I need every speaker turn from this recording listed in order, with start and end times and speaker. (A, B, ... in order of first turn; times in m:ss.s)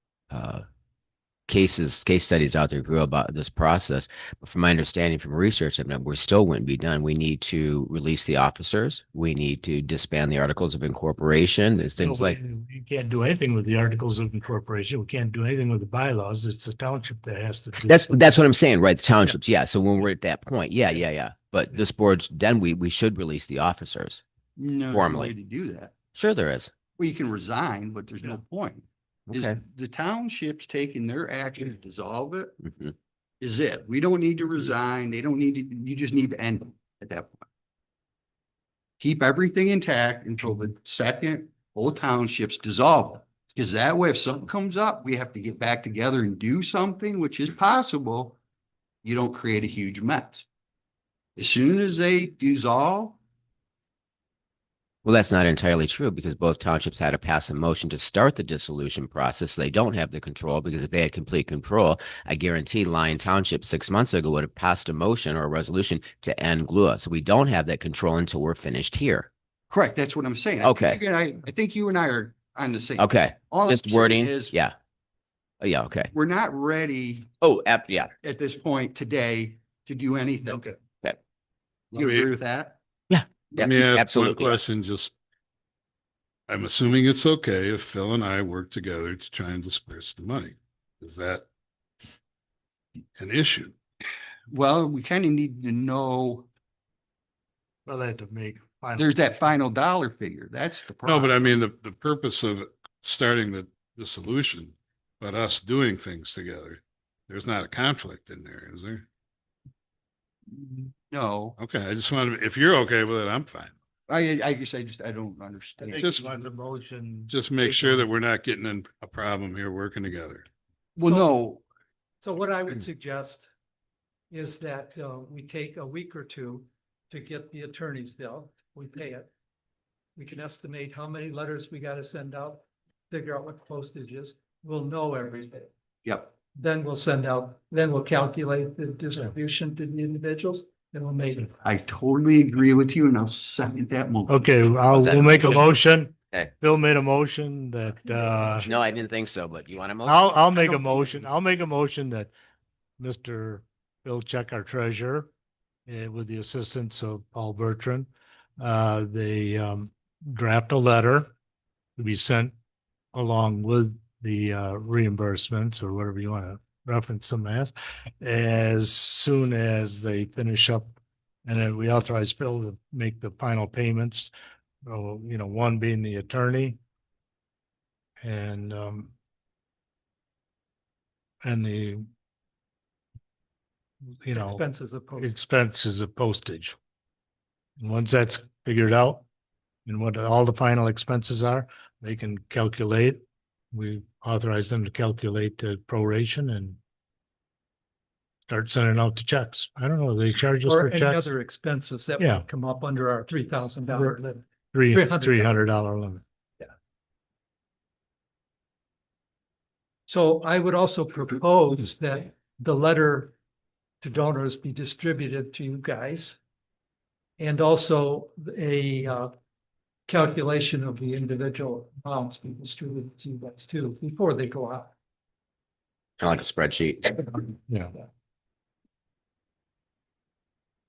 0:00.3-0:00.6 A
0:01.5-0:12.4 A
0:12.0-0:18.4 B
0:17.9-0:24.2 A
0:24.6-0:25.9 C
0:24.9-0:25.3 A
0:26.2-0:26.7 A
0:27.0-0:32.6 C
0:29.3-0:29.6 A
0:33.4-0:37.5 C
0:39.0-0:48.4 C
0:49.0-0:50.4 C
0:51.4-0:53.2 C
0:55.0-1:09.3 A
1:09.7-1:14.6 C
1:10.6-1:11.0 A
1:13.0-1:14.7 A
1:15.6-1:16.1 A
1:16.1-1:17.3 C
1:17.4-1:18.1 A
1:18.2-1:20.6 C
1:20.5-1:20.8 B
1:21.9-1:22.8 C
1:22.0-1:22.3 D
1:23.1-1:24.6 A
1:23.6-1:25.2 D
1:26.5-1:31.4 D
1:33.2-1:33.8 D
1:34.5-1:36.5 C
1:37.9-1:39.1 B
1:39.0-1:41.5 C
1:41.0-1:49.1 D
1:50.5-1:51.6 C
1:51.6-1:53.7 D
1:54.1-1:56.2 C
1:55.8-1:58.1 B
1:55.9-1:56.3 D
1:57.3-2:00.5 D
2:01.0-2:01.6 C
2:01.0-2:01.4 E
2:02.2-2:03.5 E
2:04.3-2:09.3 E
2:10.2-2:15.7 E
2:16.0-2:16.3 C
2:16.5-2:21.5 E
2:21.6-2:24.5 C
2:24.3-2:28.7 B
2:24.9-2:26.5 A
2:28.6-2:31.2 A
2:30.0-2:32.3 B
2:33.0-2:35.3 B
2:35.9-2:41.3 B
2:42.0-2:42.6 B
2:43.1-2:51.0 B
2:51.5-2:54.3 B
2:54.8-2:56.8 B
2:58.2-2:59.1 B
3:01.4-3:02.0 B
3:04.2-3:06.8 B
3:04.3-3:05.3 E
3:07.8-3:09.2 B
3:09.9-3:16.8 B
3:18.5-3:21.3 B
3:20.6-3:25.6 E
3:22.2-3:22.5 B
3:23.9-3:24.2 B
3:24.7-3:26.2 B
3:30.1-3:33.3 E
3:34.0-3:36.4 E
3:37.4-3:39.3 E
3:40.1-3:44.9 E
3:46.2-3:47.4 A
3:47.7-3:47.9 B